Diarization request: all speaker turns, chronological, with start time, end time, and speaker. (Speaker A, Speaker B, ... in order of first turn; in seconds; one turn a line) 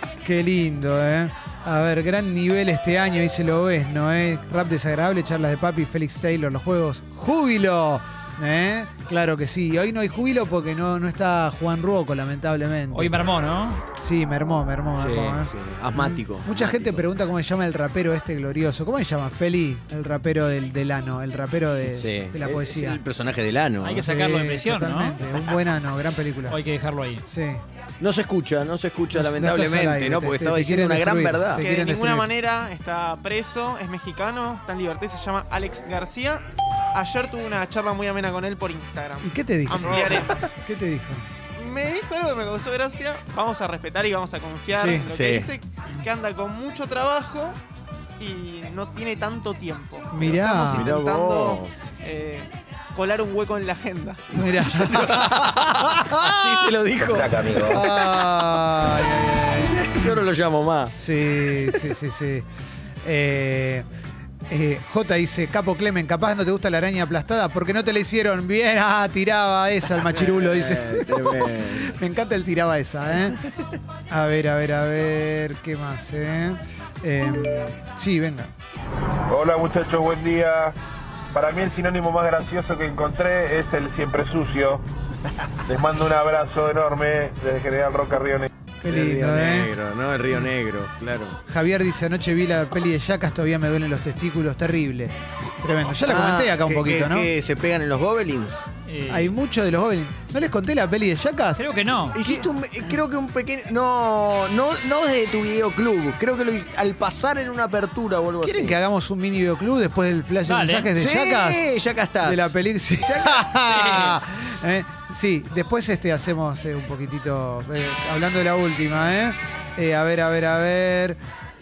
Speaker A: 0.2-13.2
Speaker B: 12.9-13.8
Speaker A: 13.9-23.0
Speaker C: 14.9-17.0
Speaker C: 21.8-24.0
Speaker B: 23.8-25.2
Speaker A: 24.0-26.6
Speaker B: 26.5-27.2
Speaker A: 27.2-27.6
Speaker C: 28.0-31.6
Speaker A: 29.1-32.3
Speaker D: 31.6-40.5
Speaker A: 39.2-41.3
Speaker C: 39.8-40.1
Speaker D: 41.5-47.6
Speaker A: 44.7-45.1
Speaker C: 45.0-45.5
Speaker D: 48.2-54.4
Speaker A: 50.1-50.9
Speaker C: 50.6-51.7
Speaker A: 54.3-55.4
Speaker C: 54.5-58.9
Speaker A: 56.0-56.7
Speaker E: 57.0-57.9
Speaker A: 57.7-60.2
Speaker C: 59.5-60.9
Speaker A: 60.9-62.5
Speaker A: 63.0-63.9
Speaker A: 64.5-73.4
Speaker C: 70.0-72.0
Speaker A: 74.1-78.5
Speaker E: 79.3-80.7
Speaker E: 81.3-84.8
Speaker E: 85.7-88.5
Speaker A: 88.8-89.7
Speaker C: 88.9-91.4
Speaker A: 91.5-97.3
Speaker C: 96.0-98.7
Speaker B: 98.8-99.4
Speaker A: 99.1-101.7
Speaker B: 101.6-102.2
Speaker C: 102.1-108.8
Speaker A: 102.2-102.5
Speaker A: 108.4-111.7
Speaker B: 110.4-111.0
Speaker C: 111.0-114.2
Speaker A: 112.2-121.2